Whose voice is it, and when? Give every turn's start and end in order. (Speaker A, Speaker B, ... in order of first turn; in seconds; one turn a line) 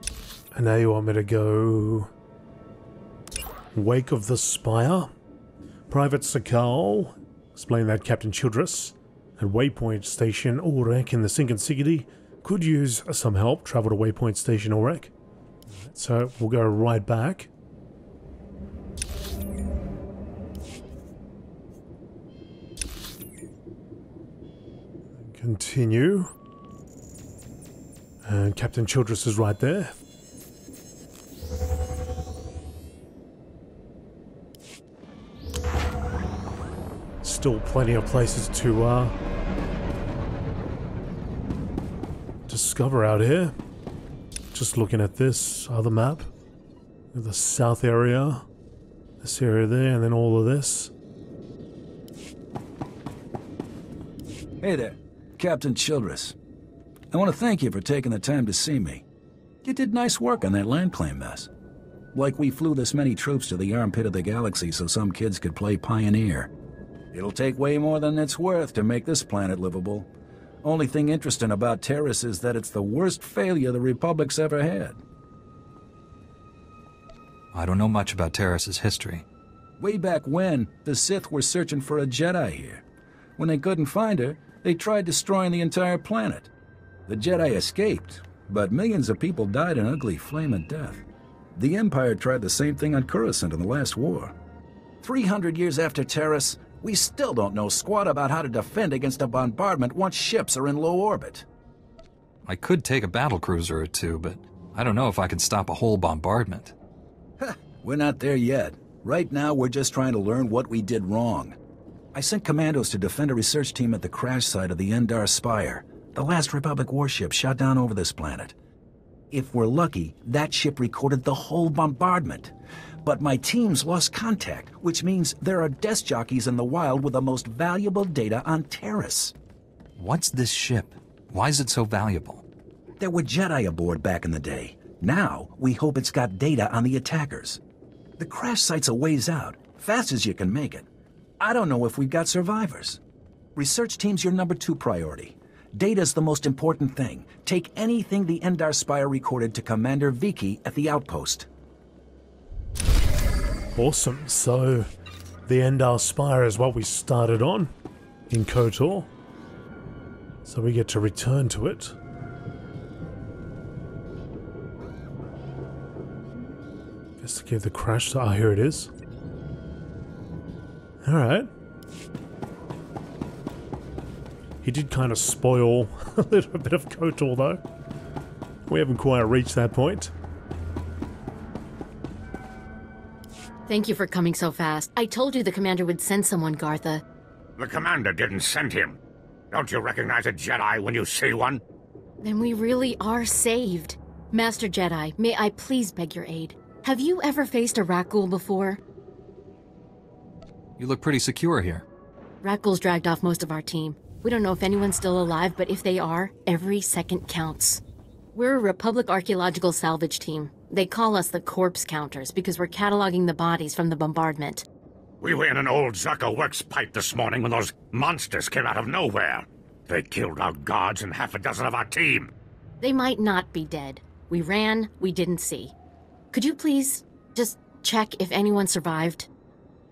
Speaker A: 0.5-2.1
Speaker A: 3.7-5.1
Speaker A: 5.9-15.1
Speaker A: 15.8-17.5
Speaker A: 25.3-26.3
Speaker A: 28.2-30.0
Speaker A: 37.2-39.1
Speaker A: 42.5-43.5
Speaker A: 44.5-46.3
Speaker A: 47.1-48.5
Speaker A: 49.2-50.9
Speaker B: 54.6-56.4
Speaker B: 57.1-59.0
Speaker B: 59.6-61.5
Speaker B: 62.1-66.5
Speaker B: 67.1-70.1
Speaker B: 70.6-75.0
Speaker C: 77.5-79.2
Speaker B: 79.8-82.8
Speaker B: 83.4-86.5
Speaker B: 87.1-91.0
Speaker B: 91.6-94.3
Speaker B: 95.0-101.5
Speaker C: 102.5-106.8
Speaker B: 107.4-111.6
Speaker B: 112.1-118.5
Speaker B: 119.3-122.5
Speaker B: 123.0-129.3
Speaker C: 130.0-132.4
Speaker B: 133.0-137.6
Speaker B: 138.2-140.9
Speaker B: 141.4-143.0
Speaker B: 143.6-151.5
Speaker A: 153.8-154.9
Speaker A: 155.4-157.7
Speaker A: 158.3-159.1
Speaker A: 160.4-161.9
Speaker A: 167.2-168.9
Speaker A: 171.0-171.5
Speaker A: 174.6-177.6
Speaker A: 178.7-180.1
Speaker D: 183.7-187.0
Speaker E: 187.6-189.0
Speaker E: 189.5-191.6
Speaker D: 192.2-198.8
Speaker C: 200.8-201.8
Speaker D: 202.4-207.8
Speaker D: 208.3-214.7
Speaker E: 215.2-222.3
Speaker D: 222.8-225.7
Speaker D: 226.3-229.3